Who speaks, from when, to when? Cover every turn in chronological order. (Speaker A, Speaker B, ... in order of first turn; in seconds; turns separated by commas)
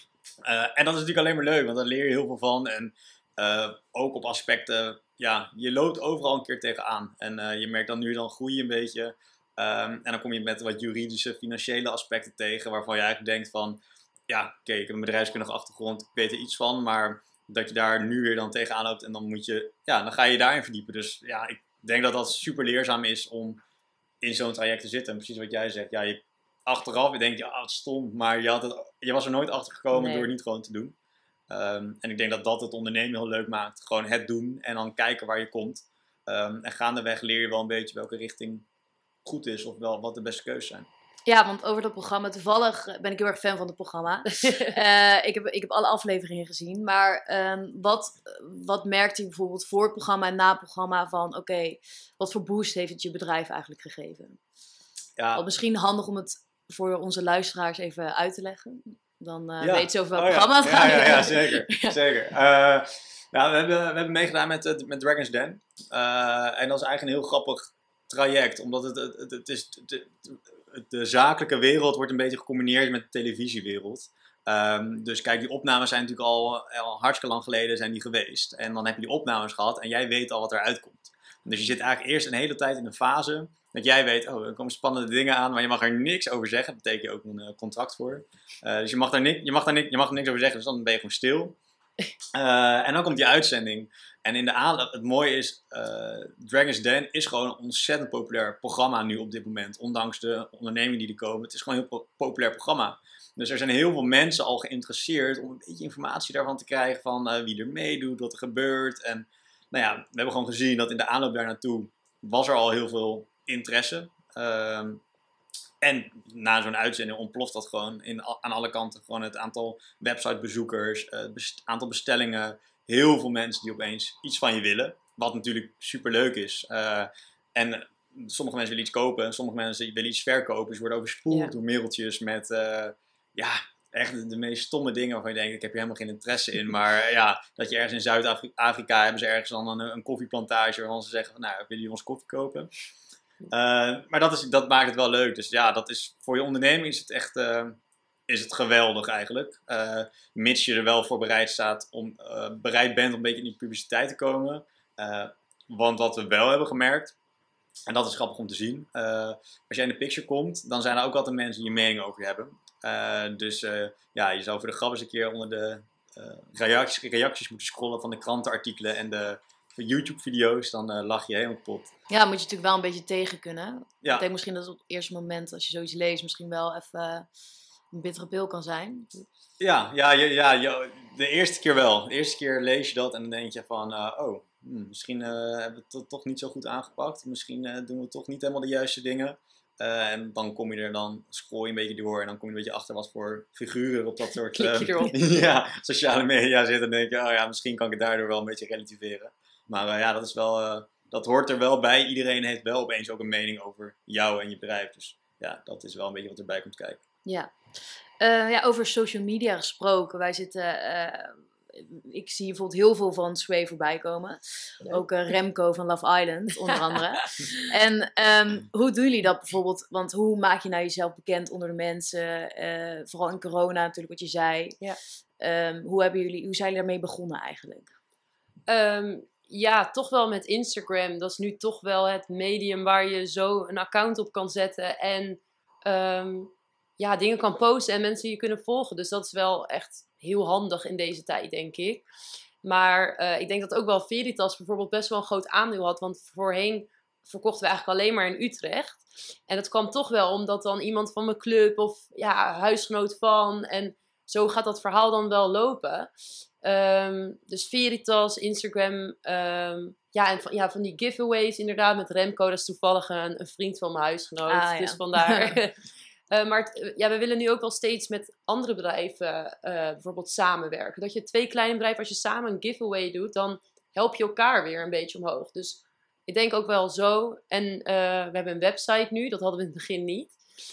Speaker A: 0.4-23.6, Speaker A: 24.2-30.9, Speaker B: 29.9-30.3, Speaker A: 31.5-38.6, Speaker A: 39.2-40.9, Speaker B: 41.2-54.4, Speaker C: 44.4-44.7, Speaker A: 55.2-55.5, Speaker B: 55.3-62.0, Speaker A: 59.6-91.5, Speaker A: 92.3-115.0, Speaker A: 115.8-142.7, Speaker A: 143.5-147.8, Speaker A: 148.3-157.1, Speaker A: 157.9-171.9, Speaker B: 172.1-177.3, Speaker B: 177.9-179.1, Speaker A: 179.6-207.0, Speaker C: 194.5-195.1, Speaker B: 207.2-207.5, Speaker B: 208.2-224.8, Speaker C: 217.2-217.6, Speaker B: 225.4-227.9, Speaker C: 228.7-242.0, Speaker C: 242.6-256.1, Speaker C: 256.6-265.8, Speaker B: 264.5-265.6, Speaker C: 266.3-280.3